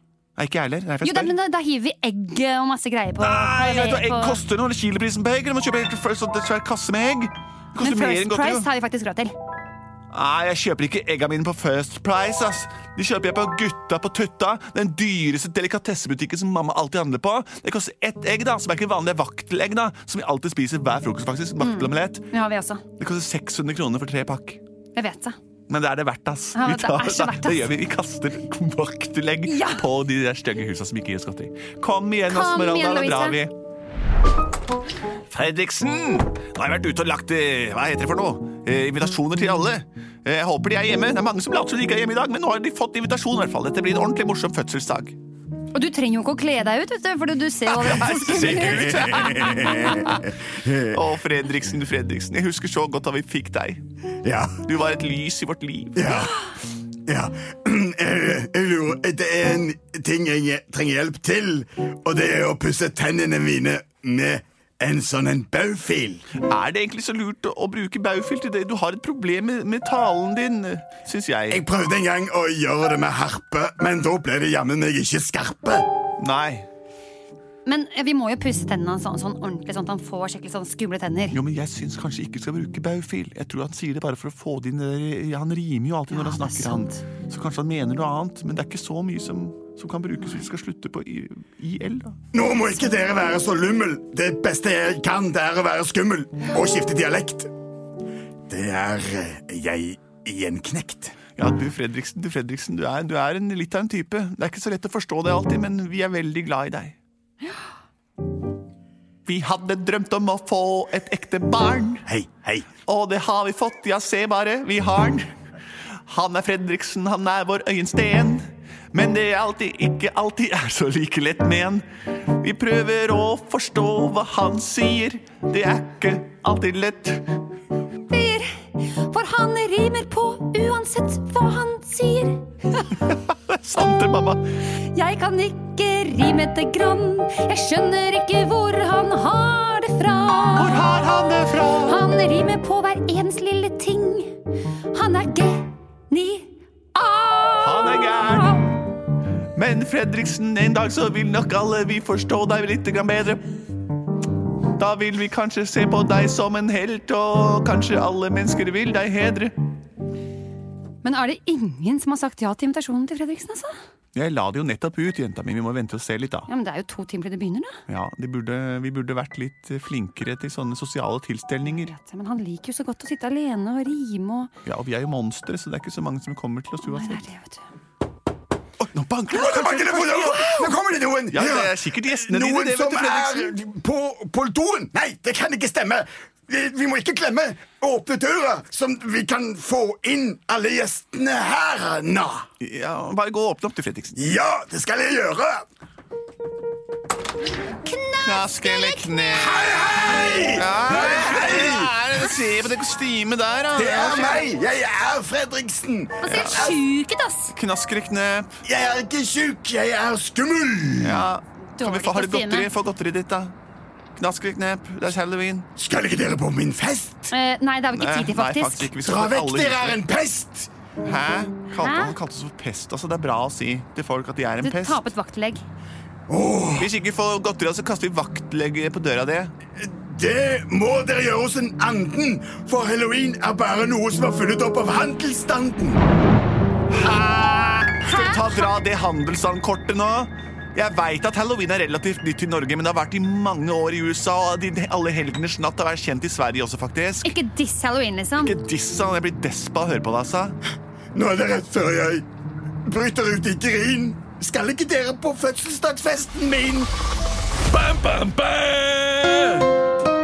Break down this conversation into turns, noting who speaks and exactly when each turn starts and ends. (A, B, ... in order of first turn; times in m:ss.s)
0:00.4-0:01.3 A
0:01.0-0:04.4 B
0:03.2-0:08.7 A
0:07.8-0:09.3 B
0:10.1-0:22.3 A
0:21.6-0:22.8 B
0:23.0-0:24.6 A
0:25.0-0:25.4 B
0:25.7-0:33.5 A
0:26.6-0:27.7 B
0:29.5-0:29.8 B
0:32.3-0:33.4 B
0:35.3-0:45.2 A
0:45.7-0:50.1 B
0:47.7-0:50.2 A
0:48.7-0:51.0 C
0:50.9-0:53.8 A
0:54.2-0:54.6 C
0:54.6-0:56.2 A
0:56.0-0:56.5 C
0:57.1-1:06.2 C
1:06.4-1:11.6 A
1:11.5-1:15.9 C
1:16.2-1:16.7 A
1:17.7-1:21.4 B
1:21.3-1:32.2 A
1:26.1-1:27.0 B
1:32.3-1:37.5 C
1:38.5-1:41.2 C
1:41.4-1:47.0 A
1:49.3-1:52.0 A
1:52.1-1:52.7 C
1:52.8-1:55.3 A
1:56.1-2:01.8 A
2:02.4-2:07.3 A
2:08.1-2:13.0 B
2:13.1-2:14.4 A
2:14.9-2:21.1 B
2:20.5-2:22.0 A
2:21.8-2:24.3 B
2:24.9-2:28.7 B
2:27.6-2:28.7 A
2:29.6-2:33.4 A
2:34.8-2:39.6 A
2:41.0-2:43.7 B
2:44.2-2:46.5 A
2:46.5-2:47.8 B
2:47.9-2:51.9 A
2:51.7-2:54.5 B
2:54.6-2:57.2 A
2:56.8-2:57.6 B
2:58.8-3:00.4 A
2:59.3-3:12.5 C
3:00.2-3:00.7 B
3:01.3-3:03.5 A
3:12.6-3:14.2 A
3:14.2-3:15.6 C
3:17.7-3:19.3 B
3:18.2-3:20.0 A
3:19.4-3:22.0 C
3:20.5-3:24.5 A
3:23.7-3:26.8 C
3:26.2-3:27.5 B
3:26.3-3:26.7 A
3:27.5-3:28.5 A
3:28.6-3:31.3 C
3:31.0-3:33.5 A
3:31.8-3:32.7 B
3:34.2-3:35.7 A
3:35.8-3:37.3 C
3:37.3-3:38.9 B
3:37.9-3:40.0 A
3:39.0-3:40.7 C
3:41.0-3:45.0 A
3:41.8-3:42.2 B
3:44.6-3:45.6 B
3:46.3-3:46.9 C
3:46.8-3:49.5 A
3:49.8-3:56.0 C
3:56.9-4:07.3 A
3:58.0-3:58.8 B
4:07.2-4:08.6 B
4:08.4-4:10.6 A
4:11.2-4:12.2 C
4:12.9-4:16.9 C
4:17.7-4:19.7 A